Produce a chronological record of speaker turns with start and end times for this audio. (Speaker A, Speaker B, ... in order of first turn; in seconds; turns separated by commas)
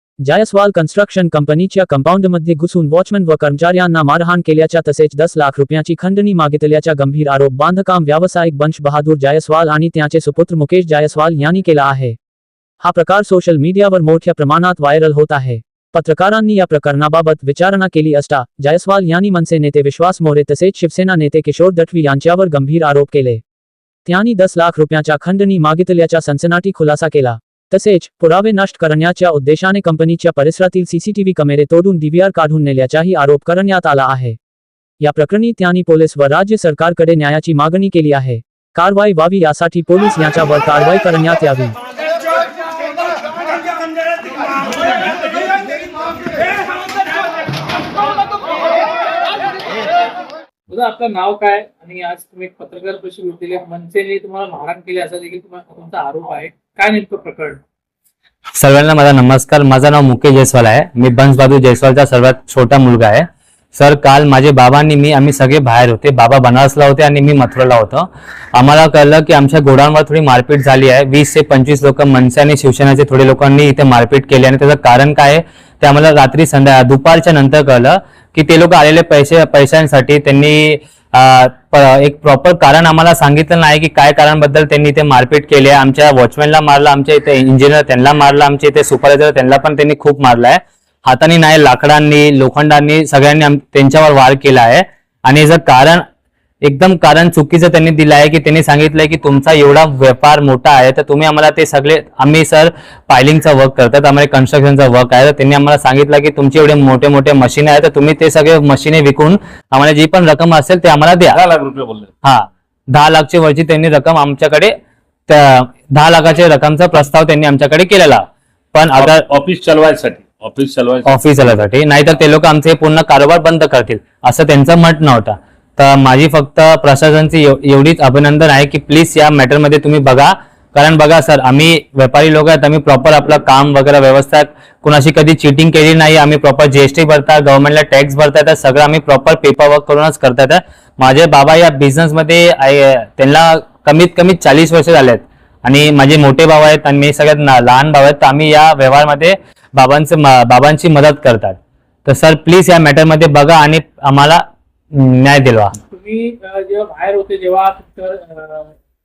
Speaker A: 0.2-12.2, Speaker A: 12.8-23.4, Speaker A: 24.1-34.4, Speaker A: 35.0-41.8, Speaker B: 50.7-57.6, Speaker C: 58.5-96.0, Speaker C: 96.6-111.4, Speaker D: 111.3-112.1, Speaker C: 112.2-114.7, Speaker C: 115.3-119.2, Speaker D: 119.0-121.7, Speaker C: 121.0-155.8, Speaker B: 155.9-158.7